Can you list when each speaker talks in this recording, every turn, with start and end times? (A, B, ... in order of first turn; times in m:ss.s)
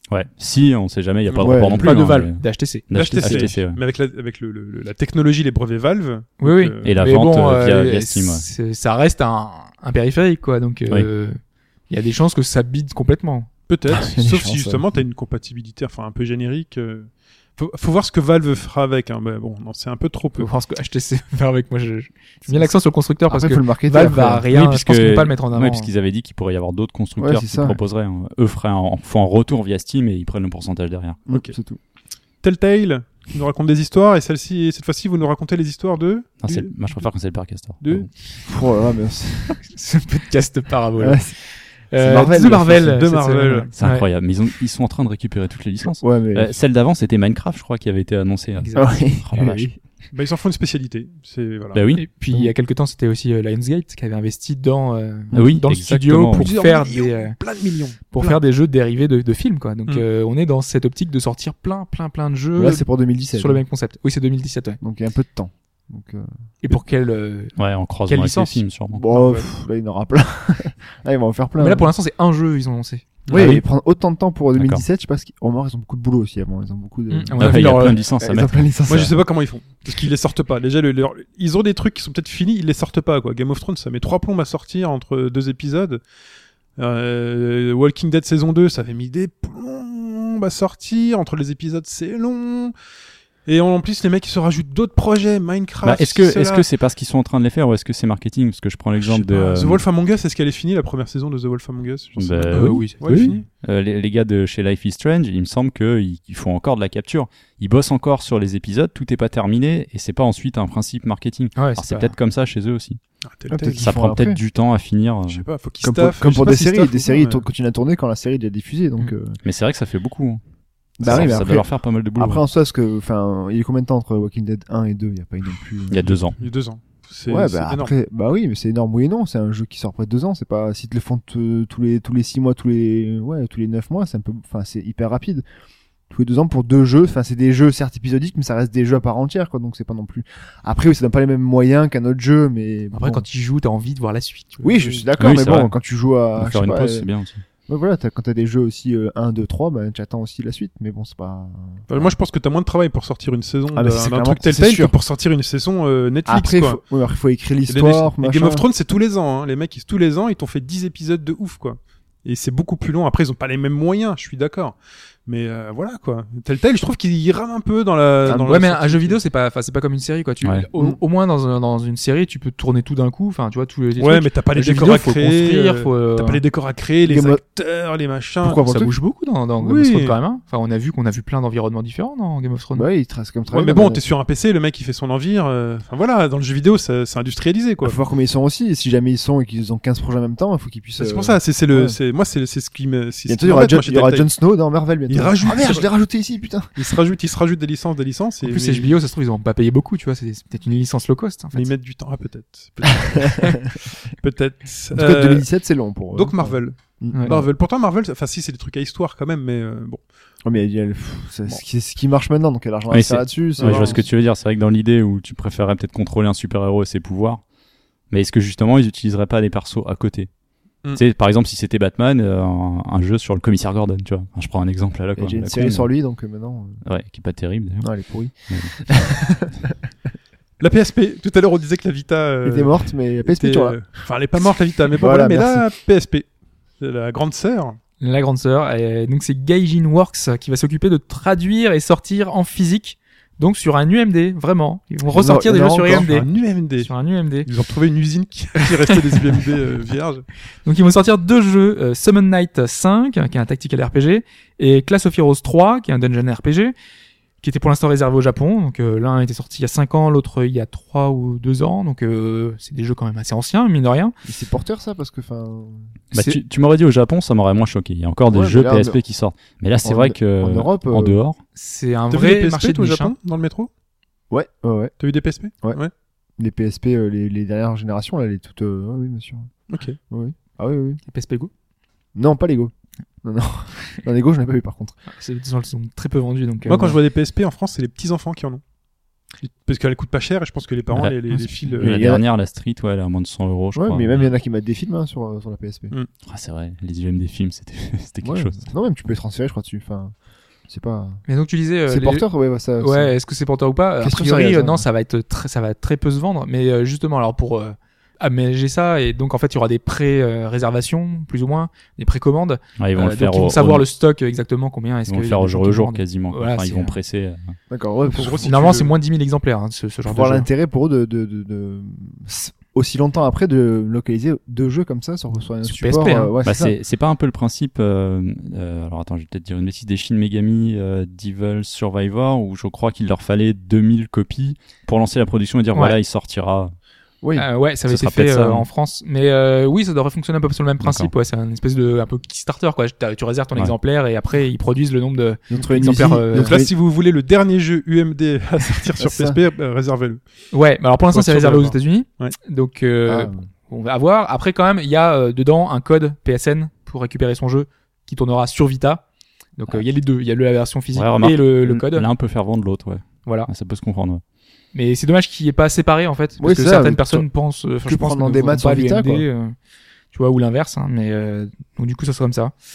0:00.1-0:03.8 A
0:01.4-0:01.9 B
0:01.8-0:03.5 C
0:02.9-0:06.8 D
0:06.4-0:13.5 C
0:06.8-0:08.4 A
0:13.7-0:20.5 D
0:13.9-0:15.0 B
0:20.4-0:25.9 C
0:22.5-0:22.7 B
0:23.3-0:24.5 B
0:24.5-0:31.2 A
0:27.2-0:27.8 B
0:31.3-0:31.8 B
0:32.4-0:37.1 D
0:36.4-0:38.1 A
0:37.8-0:38.1 D
0:38.4-0:39.6 B
0:39.6-0:44.0 C
0:41.0-0:41.4 B
0:41.9-0:43.0 B
0:42.6-0:43.7 D
0:43.8-0:49.7 A
0:46.0-0:46.6 B
0:48.6-0:49.0 C
0:48.8-0:49.8 B
0:50.1-0:51.8 D
0:51.7-0:52.0 A
0:52.0-0:57.4 C
0:55.3-0:56.5 A
0:56.3-0:58.4 D
0:58.1-1:04.8 C
1:02.6-1:03.6 B
1:04.8-1:06.3 B
1:06.6-1:07.5 C
1:07.6-1:09.0 A
1:08.1-1:08.6 C
1:08.9-1:11.9 B
1:09.1-1:09.5 D
1:11.6-1:13.5 C
1:13.3-1:13.5 D
1:13.3-1:19.2 B
1:13.3-1:13.6 A
1:14.6-1:14.8 A
1:17.1-1:18.0 C
1:17.4-1:19.1 A
1:18.9-1:26.0 D
1:26.8-1:32.7 D
1:33.4-1:36.6 D
1:35.8-1:39.8 A
1:39.0-1:43.5 D
1:42.2-1:53.0 A
1:42.5-1:43.4 C
1:51.6-1:52.1 C
1:53.2-1:53.9 D
1:53.5-1:54.4 B
1:53.8-1:55.4 A
1:55.3-1:57.4 D
1:55.8-1:59.4 B
1:59.4-2:00.4 A
2:01.0-2:06.3 B
2:01.0-2:02.4 A
2:05.9-2:06.4 A
2:06.4-2:07.9 D
2:07.3-2:15.4 B
2:16.1-2:23.2 B
2:22.9-2:25.0 C
2:24.6-2:27.1 B
2:25.2-2:25.7 A
2:26.4-2:27.4 A
2:27.7-2:32.2 B
2:31.9-2:36.8 D
2:33.7-2:35.0 B
2:36.3-2:38.7 B
2:37.7-2:49.2 D
2:48.2-2:48.6 B
2:48.4-2:56.4 C
2:54.0-2:58.6 D
2:57.1-2:57.4 B
2:58.4-2:58.9 B
2:58.6-3:02.9 C
2:59.6-3:00.2 D
3:02.8-3:04.0 B
3:03.5-3:08.0 D
3:07.8-3:12.0 B
3:11.0-3:14.3 D
3:13.3-3:16.8 B
3:15.1-3:15.9 D
3:16.8-3:18.9 D
3:18.4-3:21.7 C
3:21.5-3:25.5 D
3:23.0-3:23.5 B
3:24.9-3:27.5 B
3:26.1-3:30.0 D
3:27.1-3:27.4 C
3:30.4-3:34.1 B
3:32.9-3:37.4 A
3:33.6-3:34.0 D
3:38.1-3:40.3 A
3:40.9-3:45.9 A
3:45.2-3:46.8 B
3:46.8-3:47.9 A
3:47.8-3:49.8 B
3:50.6-3:57.8 D
3:52.4-3:54.0 B
3:54.9-3:55.6 B
3:58.0-4:07.5 C
4:05.1-4:06.1 B
4:05.9-4:06.9 D
4:07.4-4:10.3 D
4:10.6-4:16.7 C
4:17.4-4:24.1 C
4:24.2-4:25.9 B
4:26.1-4:31.4 A
4:26.1-4:26.4 C
4:28.3-4:29.0 B
4:29.8-4:31.2 B
4:31.6-4:33.1 C
4:32.1-4:33.7 D
4:34.3-4:35.0 B
4:35.0-4:35.9 D
4:36.4-4:41.0 B
4:39.7-4:40.0 D
4:41.1-4:41.5 C
4:42.2-4:42.7 B
4:43.2-4:45.0 B
4:45.1-4:47.0 C
4:46.7-4:48.6 D
4:49.4-4:52.1 D
4:51.8-4:52.2 B
4:51.8-4:54.2 A
4:53.8-4:55.9 B
4:56.2-4:58.7 A
4:58.2-5:00.1 B
5:00.7-5:01.2 B
5:01.3-5:02.2 C
5:01.9-5:03.2 B
5:02.8-5:17.0 C
5:04.0-5:04.9 B
5:12.8-5:13.9 A
5:15.1-5:17.6 A
5:17.7-5:18.5 B
5:18.1-5:18.9 D
5:18.4-5:20.5 C
5:20.1-5:26.8 B
5:25.6-5:26.3 C
5:26.4-5:36.8 A
5:37.4-5:46.6 C
5:37.9-5:38.7 A
5:40.8-5:41.1 A
5:45.5-5:46.7 B
5:46.4-5:50.2 D
5:49.0-5:49.4 B
5:50.5-5:59.0 C
5:51.1-5:52.3 D
5:53.1-5:53.5 B
5:59.6-6:02.1 C
6:00.9-6:04.2 A
6:04.7-6:09.5 C
6:06.4-6:07.3 B
6:07.9-6:09.2 B
6:10.1-6:12.5 C